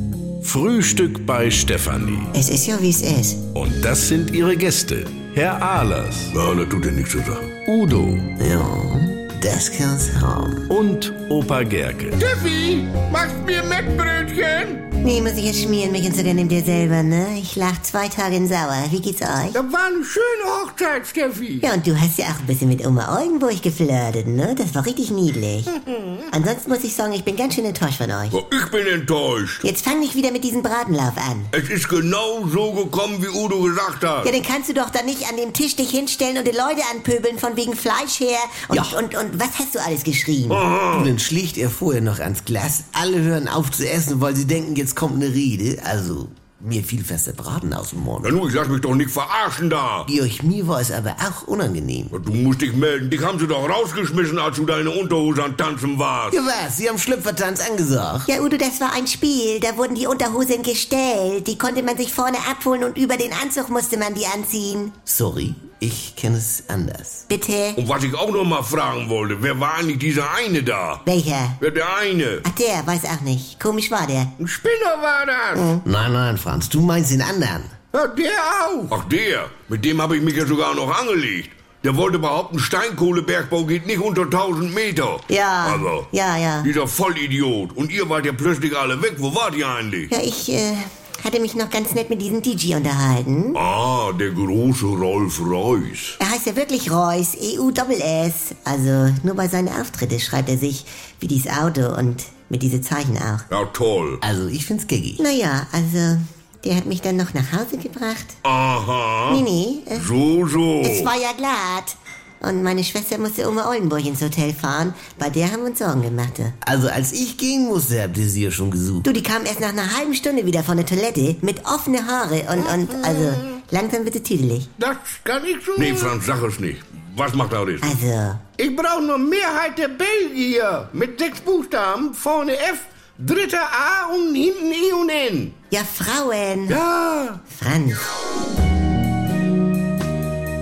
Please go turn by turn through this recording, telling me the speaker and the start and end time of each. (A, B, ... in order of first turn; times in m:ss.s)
0:00.7-0:01.2 A
0:01.8-0:02.2 A
0:02.3-0:03.4 B
0:04.7-0:05.2 A
0:06.3-0:07.6 C
0:07.9-0:08.2 A
0:08.4-0:10.7 D
0:12.2-0:14.8 C
0:15.0-0:19.6 B
0:19.6-0:21.5 C
0:21.6-0:25.7 B
0:26.3-0:28.4 B
0:28.3-0:29.6 C
0:29.6-0:31.5 B
0:31.5-0:34.3 C
0:34.2-0:40.6 B
0:38.7-0:39.0 D
0:40.5-0:41.1 C
0:40.9-0:48.4 D
0:48.2-0:50.1 C
0:50.1-0:52.1 D
0:52.1-0:56.5 C
0:56.3-0:58.3 D
0:58.3-1:05.0 B
1:05.1-1:07.3 D
1:07.3-1:07.8 B
1:07.8-1:11.0 C
1:11.0-1:11.6 B
1:11.6-1:12.4 C
1:12.4-1:14.3 B
1:14.4-1:15.7 C
1:15.6-1:15.8 B
1:15.8-1:17.8 D
1:18.9-1:26.1 C
1:25.3-1:26.7 B
1:26.6-1:30.1 C
1:30.1-1:33.6 B
1:33.6-1:36.2 C
1:36.2-1:43.5 B
1:43.5-1:44.2 C
1:44.2-1:45.2 D
1:45.2-1:48.4 B
1:48.4-1:51.1 C
1:49.3-1:50.1 B
1:50.8-1:56.6 B
1:56.6-1:59.1 D
1:59.0-2:04.7 B
2:05.8-2:07.9 C
2:07.8-2:08.4 B
2:08.6-2:15.5 C
2:15.7-2:16.8 B
2:16.7-2:17.4 C
2:17.5-2:18.0 B